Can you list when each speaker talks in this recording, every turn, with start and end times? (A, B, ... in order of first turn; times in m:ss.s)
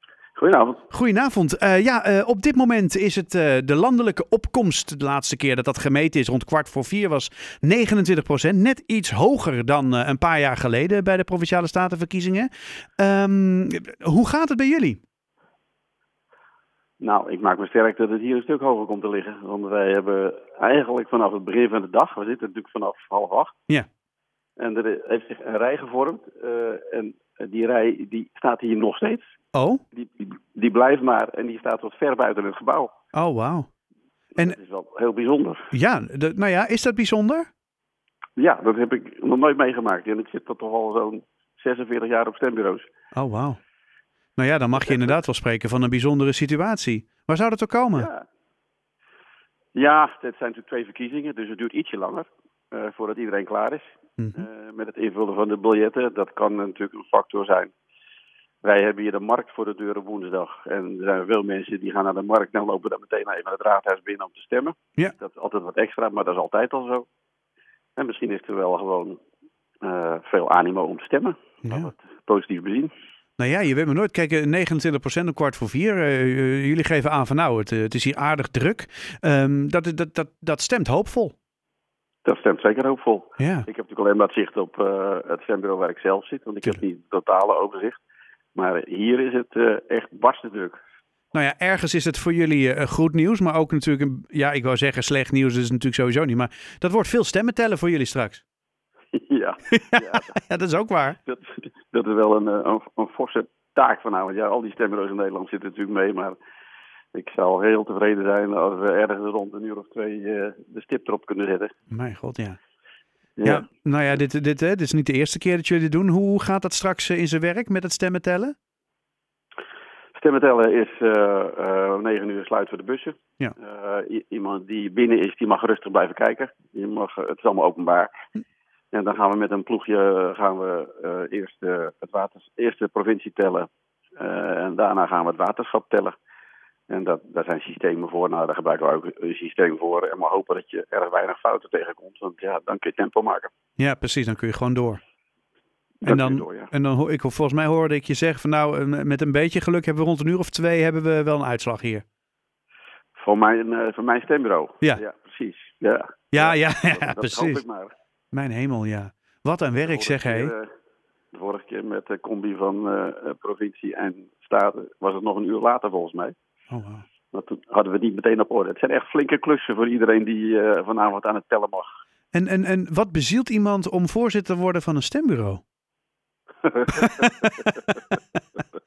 0:00.4-0:00.8 A
0:00.9-0:15.0 B
0:17.0-0:23.6 A
0:24.6-0:29.3 A
0:29.5-0:29.8 B
0:29.9-0:32.9 A
0:33.1-0:33.7 B
0:34.4-0:35.7 A
0:35.7-0:37.5 B
0:38.4-0:42.9 A
0:43.1-0:43.6 B
0:44.4-0:48.1 B
0:44.8-0:45.2 A
0:48.0-0:48.2 A
0:49.8-0:57.7 A
0:54.2-0:54.4 B
0:58.6-1:07.1 A
1:08.0-1:09.2 A
1:09.8-1:12.9 A
1:11.6-1:11.9 B
1:13.4-1:21.4 B
1:22.2-1:28.0 A
1:23.4-1:23.7 B
1:28.6-1:30.8 A
1:31.3-1:38.4 B
1:39.1-1:40.3 A
1:39.7-1:41.2 B
1:41.2-1:46.4 A
1:47.1-1:51.7 A
1:51.9-1:52.6 B
1:53.4-1:53.7 A
1:53.4-1:58.6 B
2:00.2-2:08.2 A
2:08.9-2:16.2 A
2:16.9-2:23.5 A
2:23.8-2:25.0 B
2:26.0-2:32.0 B
2:26.0-2:26.7 A
2:33.2-2:37.9 A
2:36.3-2:37.6 B
2:38.3-2:40.5 B
2:39.8-2:40.7 A
2:41.3-2:46.3 A
2:46.7-2:47.1 B
2:47.3-2:51.9 A
2:52.3-2:55.6 B
2:56.6-2:57.7 A
2:57.0-2:57.3 B